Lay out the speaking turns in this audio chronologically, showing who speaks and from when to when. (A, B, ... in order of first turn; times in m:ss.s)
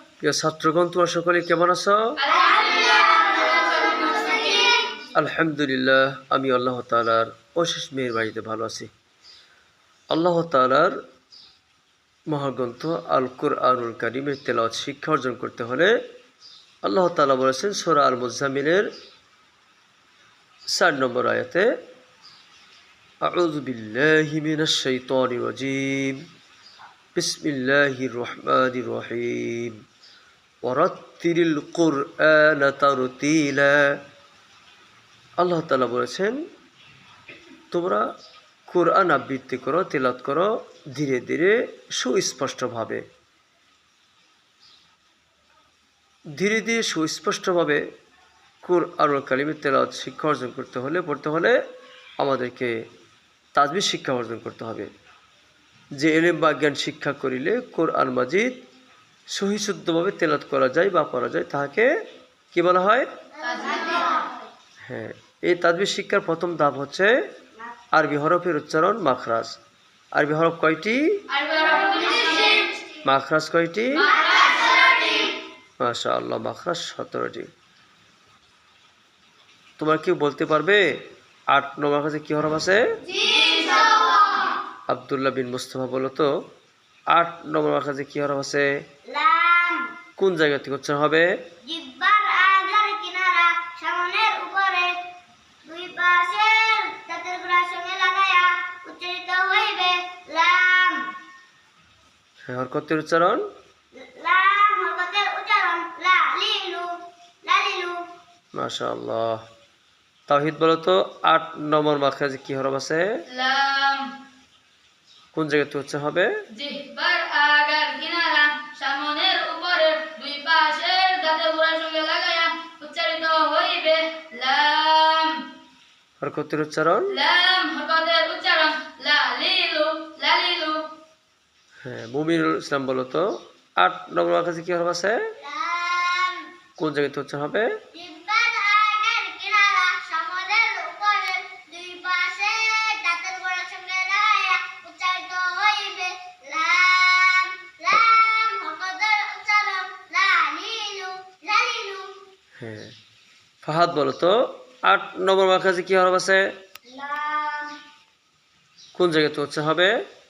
0:00.2-0:02.1 A
0:02.2-0:04.5 B
0:02.3-0:04.8 C
0:05.1-0:08.9 A
0:10.1-0:10.9 A
0:12.3-0:15.9 A
0:16.8-0:18.9 A
0:20.7-0:21.7 A
0:23.2-0:26.2 A
0:27.2-0:29.8 A
0:30.6-0:33.9 A
0:35.4-0:36.4 A
0:37.7-0:38.0 A
0:38.7-0:43.0 A
0:46.4-0:47.8 A
0:48.6-0:51.6 A
0:52.2-0:52.7 A
0:53.5-0:54.9 A
0:56.0-0:58.6 A
0:59.3-1:01.9 A
1:02.5-1:03.1 A
1:03.4-1:04.3 C
1:03.4-1:04.2 B
1:04.8-1:07.1 A
1:07.9-1:09.6 A
1:10.2-1:11.0 A
1:11.3-1:12.7 B
1:13.0-1:14.1 A
1:14.1-1:15.1 B
1:14.3-1:15.2 C
1:15.8-1:17.5 A
1:19.8-1:20.8 A
1:21.5-1:23.0 A
1:23.2-1:24.3 B
1:24.9-1:26.3 A
1:27.1-1:28.7 A
1:29.1-1:29.9 C
1:30.2-1:31.3 A
1:31.6-1:34.9 C
1:35.6-1:41.0 C
1:42.5-1:43.5 A
1:44.0-1:48.0 C
1:48.5-1:49.4 A
1:50.3-1:53.1 A
1:53.3-1:54.1 B
1:55.3-1:56.3 A
1:56.5-2:05.4 B
2:06.2-2:07.2 A
2:07.1-2:10.9 B
2:11.8-2:15.2 A
2:15.4-2:16.5 C
2:16.8-2:17.7 A
2:17.9-2:32.1 C
2:32.6-2:32.9 A
2:33.6-2:36.5 A
2:37.0-2:37.7 C
2:38.9-2:39.9 A